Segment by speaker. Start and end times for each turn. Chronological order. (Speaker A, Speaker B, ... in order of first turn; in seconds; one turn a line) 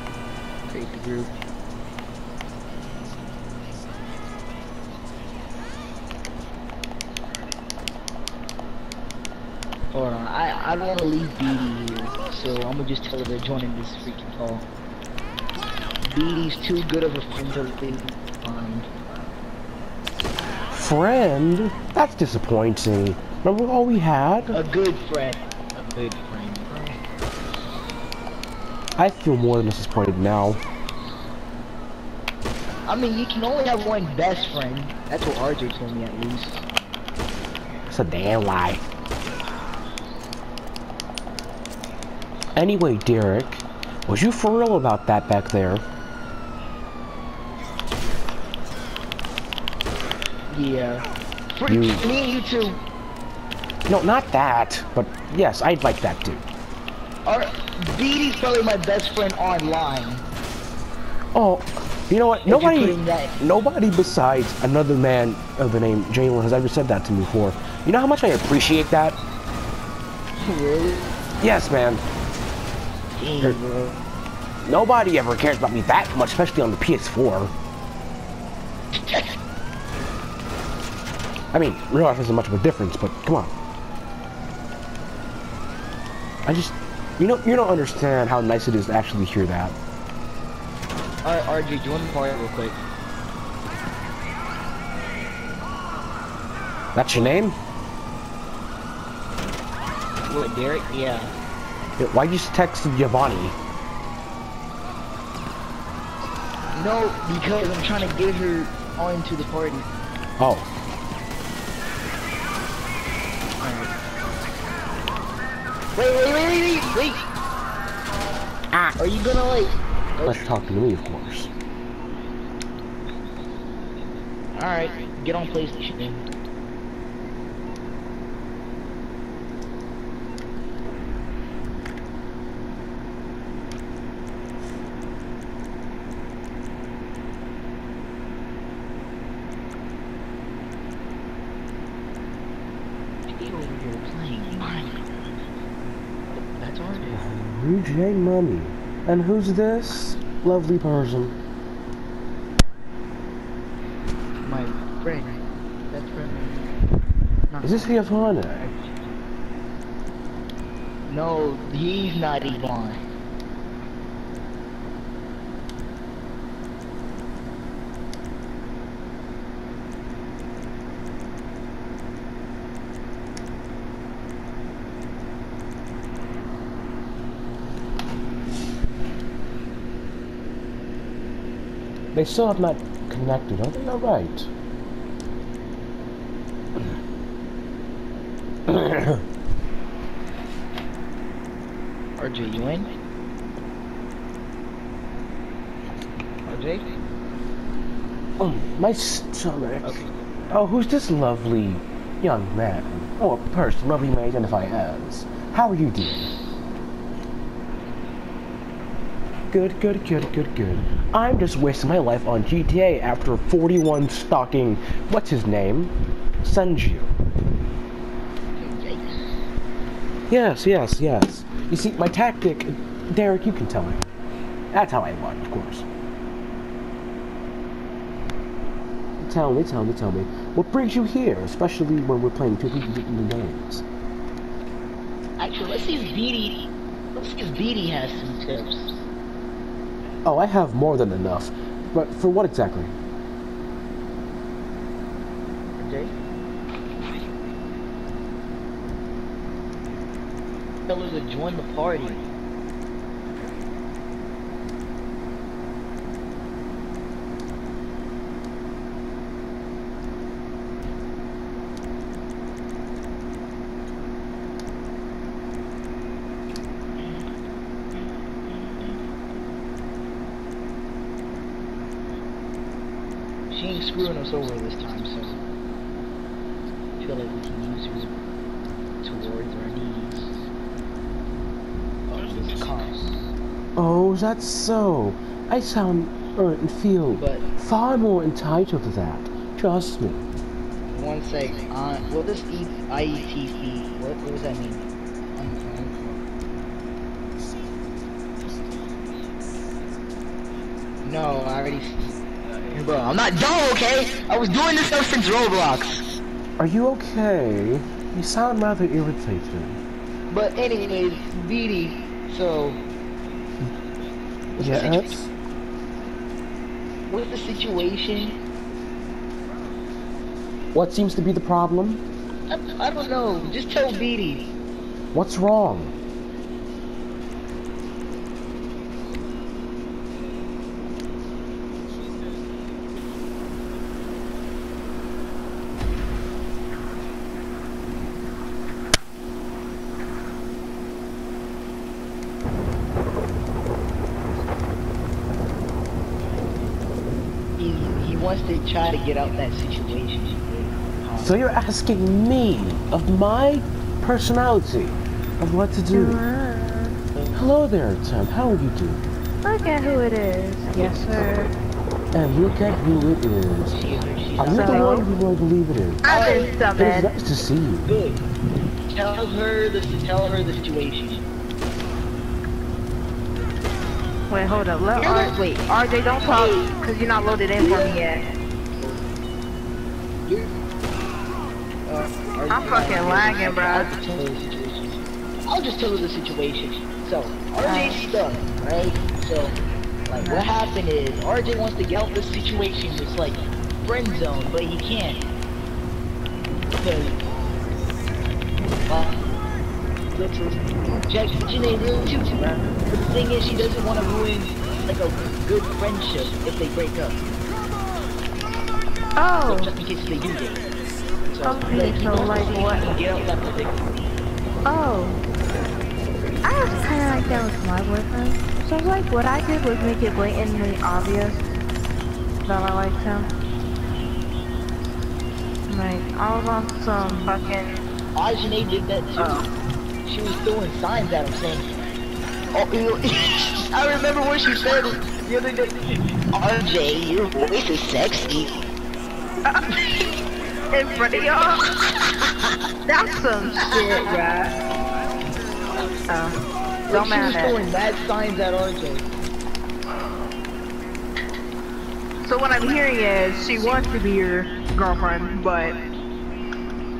Speaker A: 0.7-1.3
Speaker A: 9.9-14.6
Speaker A: 16.1-18.9
Speaker B: 20.7-24.6
Speaker A: 24.5-27.0
Speaker B: 29.0-30.6
Speaker A: 32.9-36.6
Speaker B: 37.9-38.8
Speaker B: 42.5-45.8
Speaker A: 50.5-51.0
Speaker A: 51.5-52.8
Speaker B: 51.7-52.0
Speaker B: 53.9-56.4
Speaker A: 57.2-60.2
Speaker B: 61.3-69.2
Speaker A: 62.4-63.3
Speaker A: 70.4-71.1
Speaker B: 71.4-72.0
Speaker A: 73.2-74.0
Speaker B: 74.6-77.5
Speaker B: 81.5-83.5
Speaker B: 86.4-89.7
Speaker A: 91.2-92.8
Speaker B: 96.9-97.5
Speaker A: 100.3-101.3
Speaker B: 102.0-103.5
Speaker A: 106.7-109.9
Speaker B: 110.4-110.7
Speaker A: 113.6-113.9
Speaker A: 116.0-117.2
Speaker B: 118.7-119.0
Speaker A: 119.0-120.5
Speaker B: 120.2-121.5
Speaker A: 124.5-126.3
Speaker A: 143.3-145.0
Speaker A: 146.3-147.2
Speaker B: 147.0-151.3
Speaker A: 154.4-156.7
Speaker A: 157.5-159.1
Speaker B: 157.6-158.6
Speaker A: 161.1-163.0
Speaker B: 182.1-184.5
Speaker B: 188.7-189.2
Speaker A: 192.2-192.9
Speaker A: 196.4-196.8
Speaker B: 198.4-206.3
Speaker A: 199.8-200.1
Speaker B: 209.5-217.1
Speaker A: 218.6-219.2
Speaker B: 220.3-224.1
Speaker B: 224.7-225.8
Speaker B: 229.2-233.8
Speaker A: 235.4-239.0
Speaker B: 240.2-242.9
Speaker A: 245.8-246.1
Speaker A: 250.9-252.2
Speaker A: 267.0-267.3
Speaker A: 267.9-269.0
Speaker A: 273.5-275.4
Speaker A: 277.0-278.2
Speaker A: 279.0-280.4
Speaker A: 282.1-283.3
Speaker B: 283.8-290.2
Speaker A: 287.1-287.4
Speaker A: 290.9-296.2
Speaker A: 301.0-306.0
Speaker B: 306.6-309.8
Speaker A: 310.3-312.8
Speaker A: 314.6-315.2
Speaker B: 314.6-315.3
Speaker A: 317.1-318.4
Speaker B: 320.7-322.0
Speaker A: 322.5-324.5
Speaker B: 325.1-325.9
Speaker A: 347.6-351.4
Speaker B: 351.2-356.2
Speaker C: 355.9-356.9
Speaker B: 357.3-359.0
Speaker C: 359.4-361.5
Speaker A: 360.7-361.3
Speaker B: 362.1-363.8
Speaker A: 363.7-365.0
Speaker B: 364.4-366.0
Speaker C: 364.5-365.1
Speaker C: 366.0-367.1
Speaker A: 366.0-366.5
Speaker B: 366.7-367.9
Speaker A: 367.8-368.2
Speaker A: 368.9-371.2
Speaker C: 374.3-378.2
Speaker A: 375.0-375.4
Speaker A: 376.2-376.6
Speaker A: 377.6-378.0
Speaker A: 381.9-389.5
Speaker C: 382.5-383.9
Speaker C: 387.6-388.0
Speaker A: 390.1-395.2
Speaker C: 390.1-390.5
Speaker A: 396.8-397.2
Speaker A: 398.9-399.2
Speaker A: 400.1-407.2
Speaker C: 409.2-409.7
Speaker A: 409.4-410.7
Speaker A: 411.3-413.9
Speaker C: 411.4-413.0
Speaker C: 414.6-415.2
Speaker C: 416.4-421.4
Speaker C: 422.4-423.3
Speaker C: 425.7-427.8
Speaker A: 427.0-427.4
Speaker A: 428.1-429.4
Speaker C: 429.2-429.5
Speaker A: 430.1-431.8
Speaker A: 432.5-438.6
Speaker C: 440.7-441.6
Speaker C: 442.9-444.5
Speaker A: 443.6-444.2
Speaker C: 446.1-446.4
Speaker C: 446.9-447.7
Speaker A: 446.9-449.1
Speaker C: 452.2-455.8